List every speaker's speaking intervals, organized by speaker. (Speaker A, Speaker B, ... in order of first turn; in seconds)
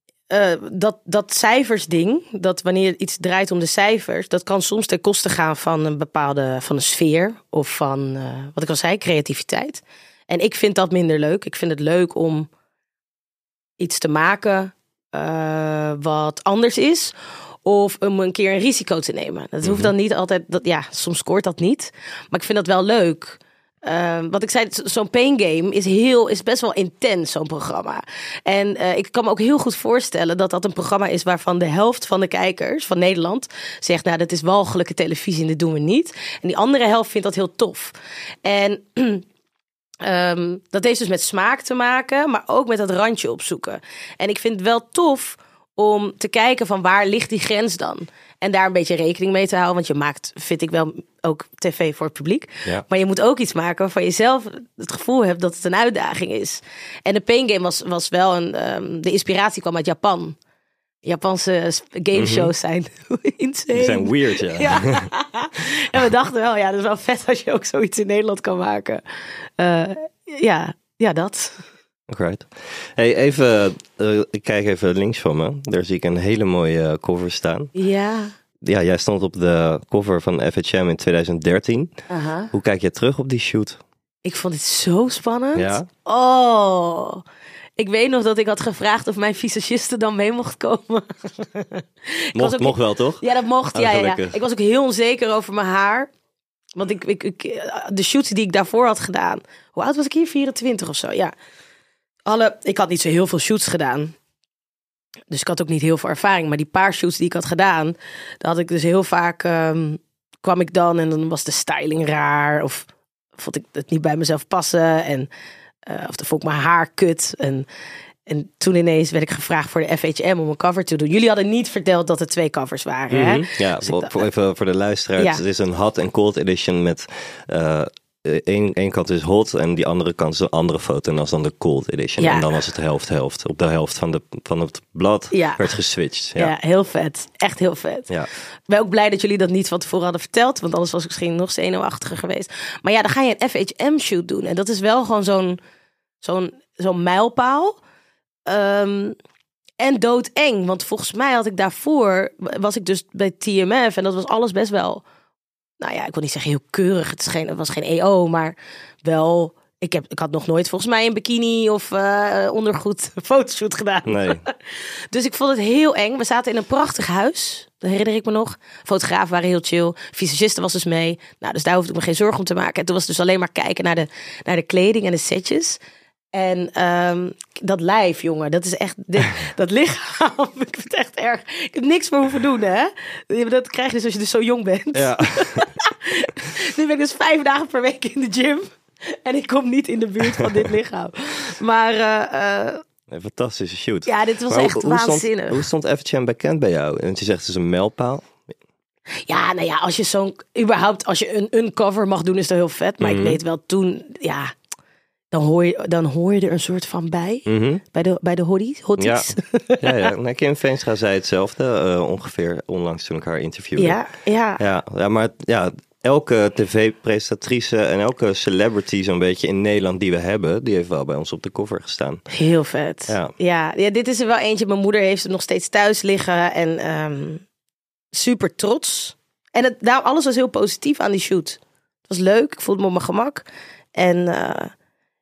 Speaker A: 0.3-12.5, 13.8-17.1, 17.6-39.2, 40.0-60.4, 61.0-69.0, 69.6-71.6, 77.7-78.3, 82.1-82.5, 84.2-87.2, 87.8-96.1, 96.8-101.3, 102.3-104.1, 105.3-115.3, 115.8-117.7, 118.3-124.2, 132.2-132.6, 135.3-135.7, 136.3-138.1, 138.7-145.6, 146.2-147.8, 148.4-149.2, 149.8-155.0, 155.8-175.8, 176.3-192.8, 194.1-195.7, 199.2-204.5, 205.3-210.1, 213.8-214.6, 222.3-227.4, 228.1-234.7
Speaker B: 19.6-19.9, 62.1-62.5, 63.7-65.1, 72.1-77.7, 78.6-81.9, 82.5-83.8, 85.5-85.9, 92.3-93.2, 93.7-94.4, 123.1-136.5, 164.1-164.4, 184.9-185.7, 193.1-198.3, 203.0-203.4, 207.5-207.8, 209.0-214.0, 214.6-222.2